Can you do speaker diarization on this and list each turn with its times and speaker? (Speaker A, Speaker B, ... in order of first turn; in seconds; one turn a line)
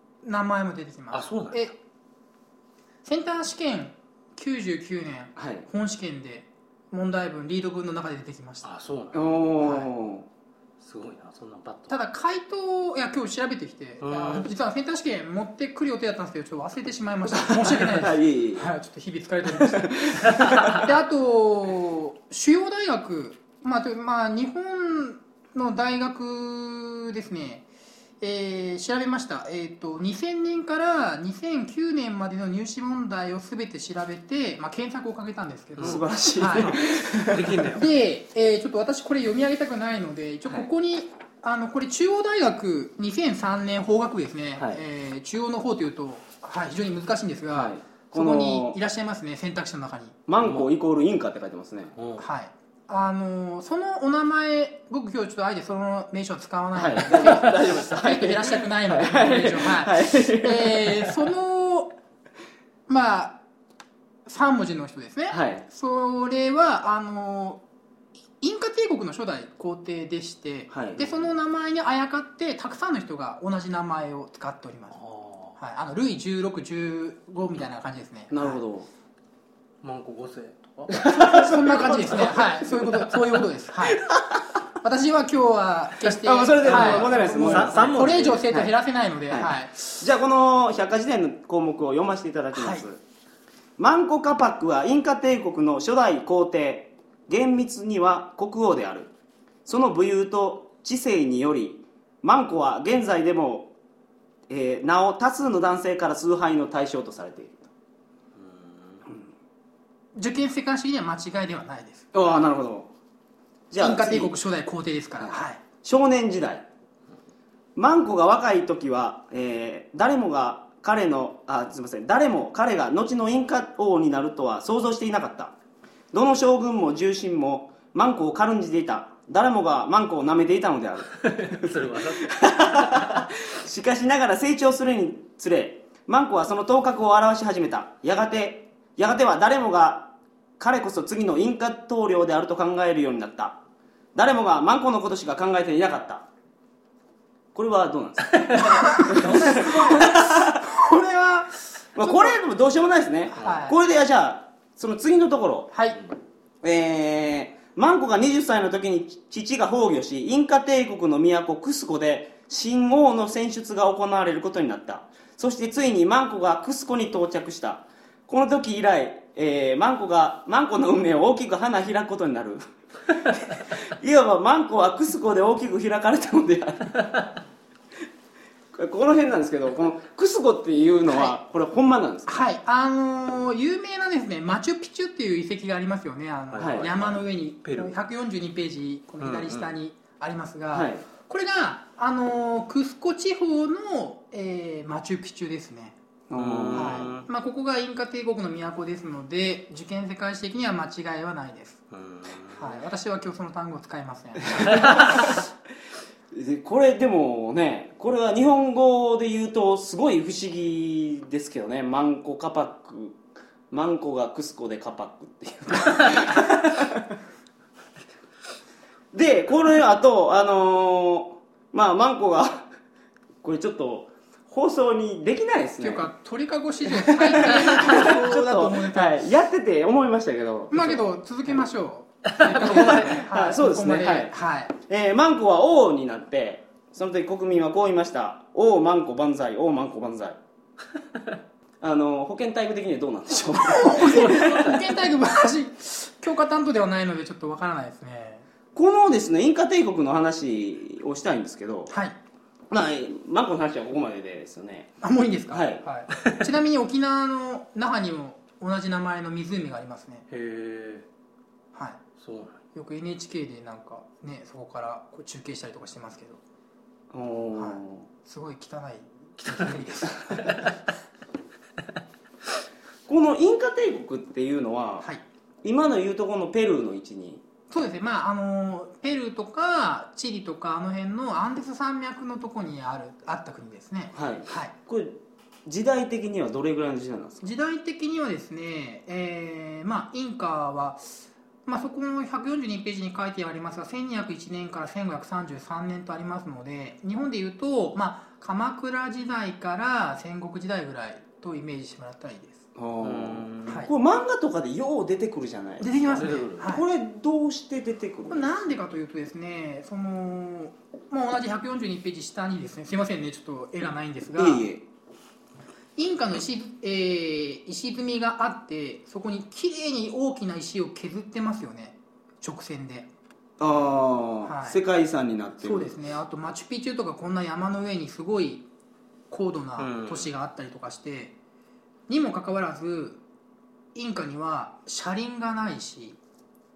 Speaker A: 0.2-1.8
Speaker B: 1.1-1.7
Speaker A: 3.0-8.7
Speaker C: 5.3-5.7
Speaker B: 8.6-9.4
Speaker C: 9.1-10.3
Speaker A: 9.6-9.9
Speaker B: 10.8-11.9
Speaker A: 11.9-27.7
Speaker B: 14.0-14.5
Speaker C: 17.2-18.7
Speaker C: 19.5-20.8
Speaker A: 28.2-36.8
Speaker B: 35.8-36.0
Speaker C: 35.8-37.7
Speaker B: 36.6-37.9
Speaker A: 37.7-50.2
Speaker C: 44.6-44.8
Speaker C: 47.5-48.8
Speaker C: 50.3-51.9
Speaker B: 50.4-50.7
Speaker B: 52.0-52.2
Speaker A: 52.2-62.0
Speaker C: 56.7-61.2
Speaker A: 62.9-63.4
Speaker A: 64.2-67.6
Speaker C: 65.3-65.6
Speaker A: 68.4-75.0
Speaker C: 70.7-71.3
Speaker B: 74.9-75.6
Speaker A: 75.6-78.6
Speaker C: 78.3-78.9
Speaker B: 79.8-81.0
Speaker C: 80.9-82.9
Speaker A: 81.0-84.1
Speaker B: 82.1-82.4
Speaker C: 84.0-84.4
Speaker A: 84.8-89.8
Speaker C: 86.0-88.7
Speaker B: 86.6-88.4
Speaker C: 89.3-93.0
Speaker A: 92.5-92.8
Speaker C: 93.8-99.1
Speaker C: 99.7-103.7
Speaker C: 104.5-107.7
Speaker B: 108.3-109.0
Speaker A: 110.1-112.3
Speaker C: 112.1-112.9
Speaker C: 113.7-114.3
Speaker A: 113.8-115.6
Speaker C: 115.2-116.7
Speaker C: 117.8-125.5
Speaker C: 126.1-143.6
Speaker B: 131.1-133.2
Speaker C: 144.1-146.2
Speaker C: 147.5-150.6
Speaker B: 148.3-149.8
Speaker A: 148.7-152.4
Speaker C: 151.9-155.7
Speaker A: 153.4-153.8
Speaker A: 155.7-156.0
Speaker C: 156.6-177.1
Speaker C: 178.7-182.4
Speaker A: 181.1-181.3
Speaker A: 182.3-196.0
Speaker B: 186.5-187.1
Speaker C: 186.6-187.0
Speaker B: 187.6-187.9
Speaker B: 189.2-189.7
Speaker C: 190.7-191.0
Speaker C: 196.3-197.1
Speaker B: 196.3-197.3
Speaker A: 196.7-201.8
Speaker B: 201.9-202.8
Speaker A: 202.5-205.3
Speaker C: 204.5-205.4
Speaker C: 206.3-213.2
Speaker C: 213.7-217.1
Speaker C: 219.1-222.7
Speaker C: 223.4-226.1
Speaker A: 225.8-229.2
Speaker C: 226.8-231.1
Speaker A: 230.7-234.7
Speaker B: 232.4-233.1
Speaker C: 232.5-240.4
Speaker C: 241.8-244.9
Speaker A: 243.6-248.5
Speaker C: 248.7-251.9
Speaker A: 251.9-252.2
Speaker C: 252.7-254.9
Speaker A: 255.0-260.2
Speaker C: 255.5-255.8
Speaker B: 260.3-261.1
Speaker A: 261.7-262.0
Speaker B: 262.2-262.6
Speaker A: 262.7-266.4
Speaker C: 267.1-268.1
Speaker A: 267.5-270.7
Speaker B: 270.4-270.7
Speaker C: 273.1-275.1
Speaker C: 275.6-277.4
Speaker A: 277.7-284.7
Speaker C: 284.1-287.4
Speaker A: 287.4-302.6
Speaker C: 302.7-308.8
Speaker B: 303.0-303.8
Speaker A: 303.6-303.9
Speaker A: 305.8-306.8
Speaker B: 306.0-306.7
Speaker A: 308.3-314.6
Speaker C: 314.4-314.8
Speaker A: 316.0-323.1
Speaker C: 323.6-325.9
Speaker A: 324.4-324.8
Speaker A: 325.6-328.7
Speaker A: 329.3-331.3
Speaker B: 329.8-330.3
Speaker A: 332.1-333.2
Speaker A: 333.9-336.2